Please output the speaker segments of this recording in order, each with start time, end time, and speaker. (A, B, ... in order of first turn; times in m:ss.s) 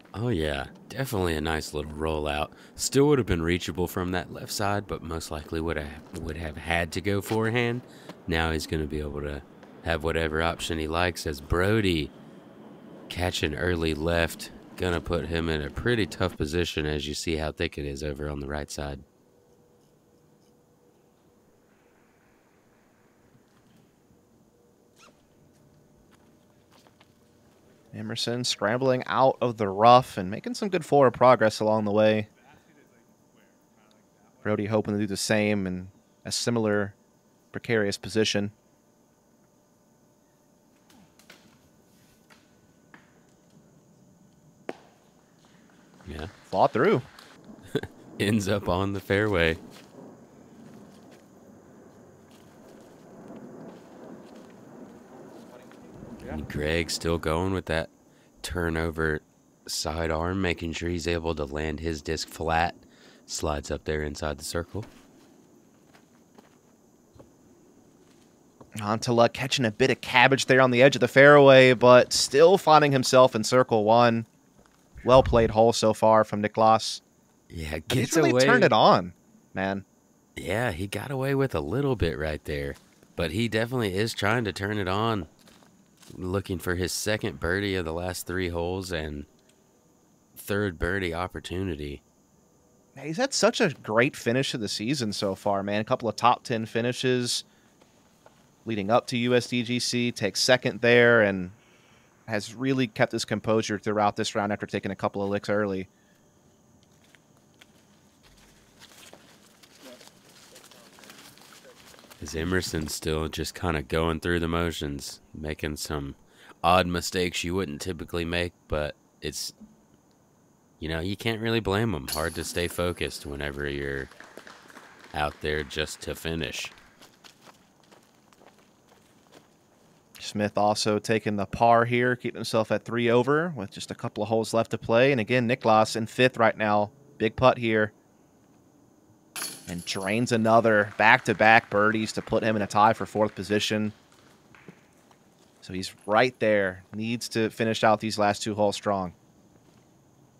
0:00.1-0:12.1 A
0:13.1-0:19.0 A
0:27.9-0:32.3 B
0:34.4-0:37.0 B
0:37.5-0:38.5 B
0:46.0-0:46.3 A
0:46.5-0:47.1 B
0:47.7-0:49.6 A
0:56.2-0:57.9 A
0:58.4-1:04.9 A
1:08.8-1:14.3 B
1:15.0-1:17.0 B
1:17.5-1:18.7 A
1:17.9-1:19.8 B
1:20.4-1:25.3 A
1:26.1-1:29.3 A
1:30.4-1:32.0 A
1:33.0-1:37.4 B
1:38.6-1:41.6 B
1:42.3-1:45.9 B
1:52.2-1:59.5 A
2:00.8-2:04.1 A
2:05.1-2:06.7 A
2:10.2-2:17.9 B
2:19.7-2:24.0 B
2:25.6-2:29.2 B